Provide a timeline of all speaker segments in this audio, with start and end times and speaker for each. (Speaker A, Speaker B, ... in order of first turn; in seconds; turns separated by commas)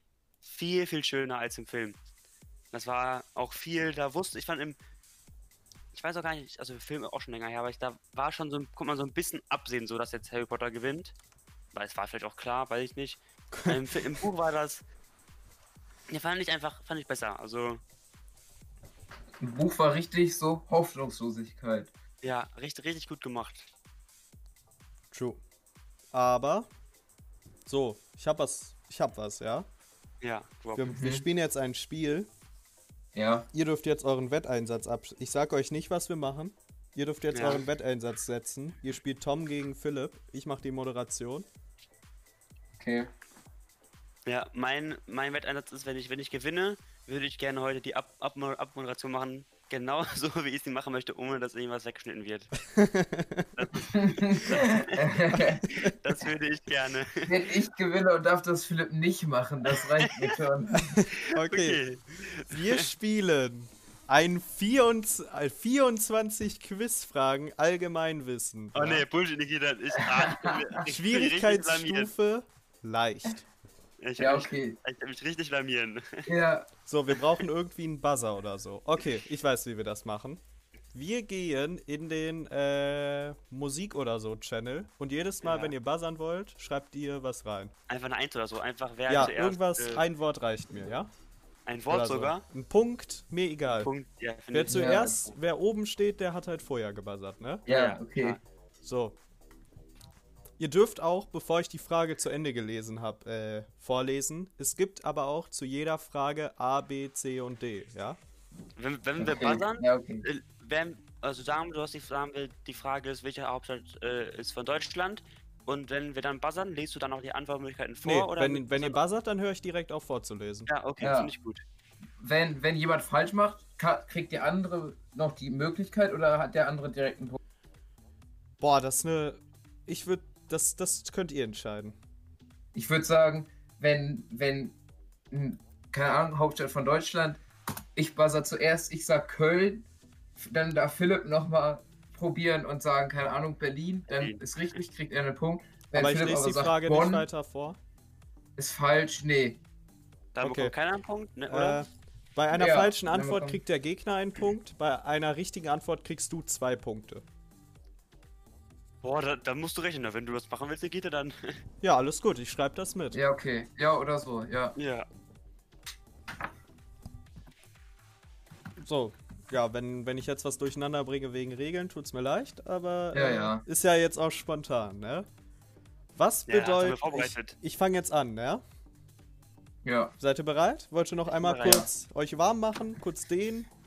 Speaker A: 0.4-2.0, Speaker A: 2.7-4.8, Speaker A: 5.9-11.1, Speaker A: 11.7-14.8, Speaker B: 13.5-14.2, Speaker A: 16.1-17.8, Speaker C: 19.4-21.9, Speaker A: 22.2-23.7, Speaker B: 25.1-25.4, Speaker B: 26.1-26.7, Speaker B: 27.6-29.7, Speaker A: 30.2-30.9, Speaker B: 30.7-32.3, Speaker C: 30.9-31.2, Speaker C: 33.1-33.5, Speaker B: 33.5-41.5, Speaker A: 37.3-37.6, Speaker C: 42.8-43.1, Speaker A: 44.2-52.5, Speaker B: 52.7-53.6, Speaker A: 53.5-57.4, Speaker C: 53.9-55.6, Speaker C: 57.2-61.0, Speaker A: 60.0-60.3, Speaker B: 60.7-61.8, Speaker A: 61.1-62.9, Speaker B: 62.5-69.0, Speaker A: 68.7-72.1, Speaker C: 70.0-70.6, Speaker B: 70.8-73.5, Speaker A: 74.0-76.3, Speaker C: 74.2-74.8, Speaker C: 76.3-76.7, Speaker B: 76.8-80.4, Speaker B: 80.9-87.7, Speaker A: 85.4-85.7, Speaker A: 87.9-90.0, Speaker B: 89.1-91.1, Speaker A: 91.7-92.4, Speaker B: 91.9-93.9, Speaker A: 93.7-95.3, Speaker B: 94.5-97.6, Speaker C: 94.7-95.2, Speaker C: 97.7-98.4, Speaker A: 97.7-98.4, Speaker B: 98.8-99.2, Speaker B: 100.6-108.2, Speaker A: 108.8-119.0, Speaker C: 109.2-110.2, Speaker B: 118.0-120.7, Speaker A: 120.7-121.6, Speaker C: 121.0-121.3, Speaker C: 122.2-127.4, Speaker B: 128.6-132.0, Speaker C: 132.7-134.8, Speaker C: 135.3-137.4, Speaker C: 137.9-139.8, Speaker C: 140.4-147.2, Speaker A: 144.1-144.4, Speaker B: 145.9-147.8, Speaker C: 148.6-149.6, Speaker A: 150.3-151.8, Speaker B: 150.4-150.7, Speaker B: 151.5-157.2, Speaker C: 152.5-153.6, Speaker A: 159.0-161.6, Speaker B: 161.8-163.2, Speaker C: 163.1-164.7, Speaker A: 164.8-165.1, Speaker B: 168.8-175.3, Speaker C: 173.1-173.6, Speaker B: 176.1-178.6, Speaker A: 176.5-177.6, Speaker C: 179.8-180.1, Speaker B: 180.2-183.7, Speaker A: 181.3-181.8